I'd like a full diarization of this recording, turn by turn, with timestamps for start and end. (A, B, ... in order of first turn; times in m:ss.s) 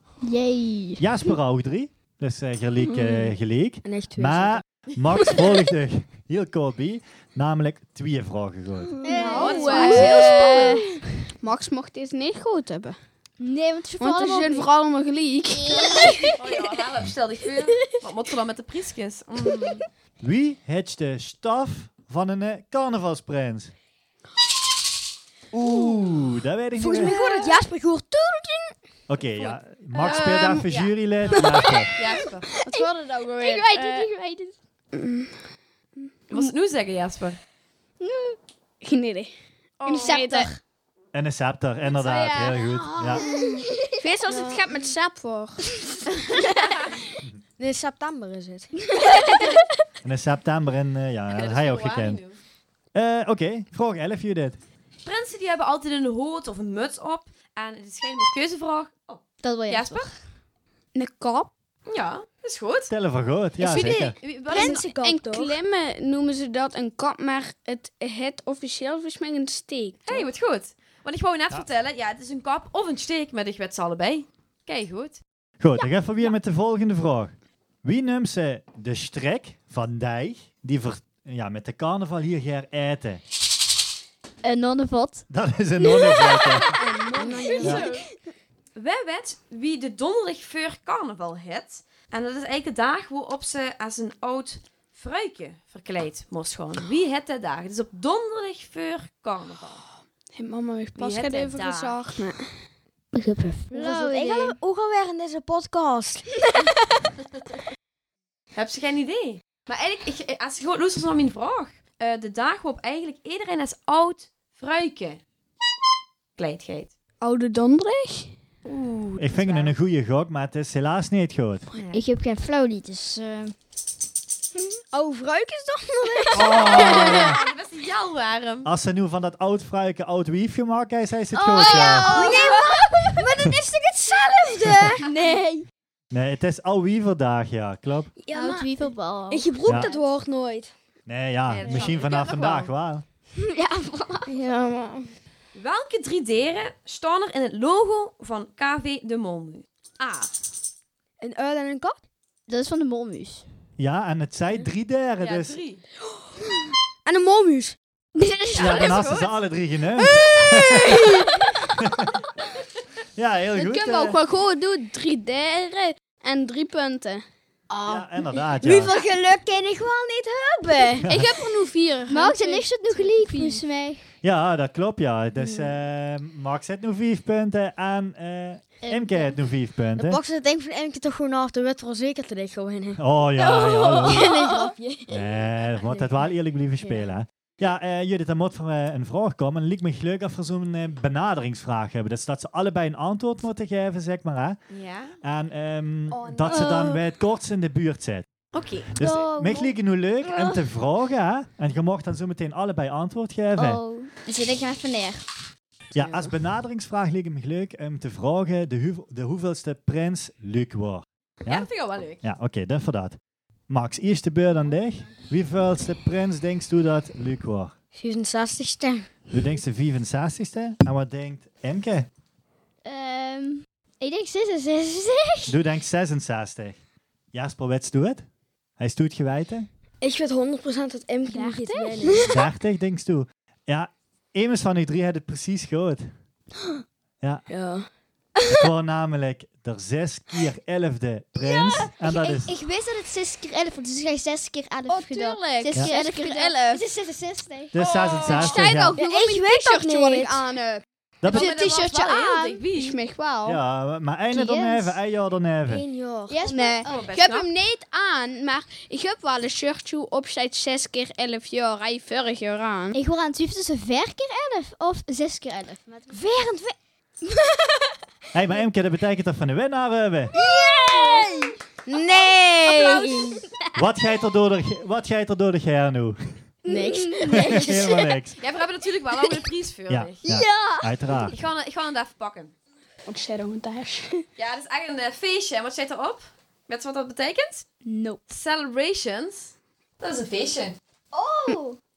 0:00.2-0:01.1 A
0:01.0-0:09.0 B
0:03.8-0:04.6 C
0:09.0-0:10.7 C
0:09.0-0:11.0 A
0:09.1-0:10.8 D
0:09.3-0:10.8 E
0:11.4-0:13.0 D
0:13.4-0:14.7 A
0:14.0-0:16.3 D
0:15.6-0:16.3 A
0:16.3-0:19.8 E
0:20.2-0:23.7 B
0:25.5-0:27.1 B
0:26.8-0:28.8 C
0:29.1-0:31.9 B
0:29.9-0:32.5 E
0:30.0-0:30.4 D
0:32.6-0:34.1 D
0:32.7-0:34.5 A
0:34.9-0:35.3 D
0:36.3-0:37.4 E
0:38.1-0:38.3 A
0:38.8-0:39.3 D
0:39.8-0:40.6 E
0:39.9-0:40.5 D
0:41.1-0:43.3 B
0:42.0-0:42.6 E
0:43.0-0:43.6 C
0:43.2-0:44.0 A
0:44.0-0:46.0 D
0:44.3-0:44.8 C
0:47.6-0:48.8 C
0:50.0-0:52.2 B
0:51.3-0:52.4 E
0:52.9-0:54.6 B
0:55.0-1:00.2 E
0:59.4-1:00.1 A
1:01.0-1:01.5 D
1:01.9-1:02.9 E
1:02.9-1:04.2 B
1:03.6-1:04.9 E
1:03.7-1:05.6 C
1:04.5-1:10.3 D
1:10.0-1:15.2 E
1:15.6-1:17.3 B
1:17.8-1:23.2 B
1:24.4-1:25.3 A
1:25.3-1:26.7 B
1:26.0-1:26.4 A
1:26.8-1:27.9 C
1:26.8-1:28.0 D
1:27.5-1:28.0 E
1:27.6-1:27.9 B
1:28.8-1:39.8 E
1:40.3-1:42.5 D
1:41.0-1:42.1 E
1:43.1-1:44.6 A
1:43.7-1:46.5 C
1:48.5-1:55.2 E
1:56.4-1:56.9 E
1:57.2-1:58.3 D
1:58.6-1:59.7 E
1:59.2-2:01.7 B
2:01.7-2:02.0 E
2:01.9-2:03.5 A
2:04.9-2:07.3 C
2:06.3-2:07.4 B
2:06.4-2:08.7 E
2:08.6-2:12.1 B
2:11.4-2:13.2 A
2:11.5-2:15.0 C
2:15.0-2:15.7 A
2:16.1-2:18.1 B
2:18.2-2:18.7 C
2:18.3-2:19.8 A
2:19.3-2:20.7 C
2:19.7-2:19.9 B
2:21.1-2:23.0 B
2:21.5-2:22.7 E
2:23.4-2:24.4 A
2:25.6-2:30.4 E
2:31.2-2:32.0 C
2:32.5-2:33.5 A
2:33.8-2:35.6 B
2:35.2-2:35.8 E
2:37.0-2:37.8 C
2:38.2-2:38.8 A
2:38.5-2:39.4 E
2:38.6-2:42.2 B
2:40.0-2:41.4 C
2:43.2-2:44.2 B
2:43.6-2:47.2 D
2:47.7-2:51.1 C
2:47.9-2:48.9 B
2:51.0-2:51.4 B
2:51.1-2:53.6 D
2:52.1-2:54.0 A
2:54.2-3:00.2 B
2:58.8-2:59.3 A
3:00.0-3:03.0 C
3:03.0-3:04.4 B
3:03.6-3:04.2 E
3:03.6-3:06.1 C
3:05.1-3:14.6 B
3:14.7-3:15.2 E
3:15.2-3:18.3 B
3:16.1-3:17.0 C
3:16.4-3:17.0 A
3:18.5-3:18.9 E
3:19.0-3:23.8 B
3:19.0-3:19.7 A
3:23.6-3:25.3 A
3:26.0-3:31.7 B
3:31.5-3:32.2 E
3:32.2-3:33.2 B
3:33.7-3:37.7 B
3:38.0-3:39.1 C
3:39.3-3:42.1 B
3:42.8-3:45.6 A
3:45.5-3:46.8 B
3:47.3-3:48.2 B
3:48.8-3:49.7 B
3:50.0-3:52.3 C
3:51.3-3:52.4 A
3:52.3-3:56.1 B
3:57.5-3:57.9 C
3:58.5-4:02.6 B
4:01.5-4:07.7 A
4:04.9-4:06.8 D
4:07.7-4:09.0 B
4:07.8-4:08.3 E
4:08.2-4:10.8 D
4:09.0-4:10.5 C
4:11.2-4:11.5 B
4:11.3-4:13.0 E
4:11.5-4:11.9 A
4:11.5-4:12.1 C
4:12.7-4:13.6 D
4:13.4-4:15.8 B
4:14.3-4:15.0 A
4:15.7-4:16.4 C
4:16.3-4:17.0 A
4:16.5-4:23.0 D
4:16.8-4:17.5 E
4:22.9-4:26.1 A
4:26.1-4:26.8 C
4:28.3-4:30.3 B
4:30.3-4:33.4 C
4:30.4-4:31.5 A
4:33.8-4:36.2 B
4:36.7-4:37.9 C
4:36.8-4:37.9 A
4:37.3-4:38.4 B
4:38.4-4:40.2 E
4:39.9-4:41.4 B
4:40.2-4:41.2 A
4:41.3-4:42.5 E
4:43.1-4:44.2 D
4:44.4-4:47.7 E
4:47.8-4:48.2 A
4:48.3-4:50.8 E
4:51.1-4:51.8 A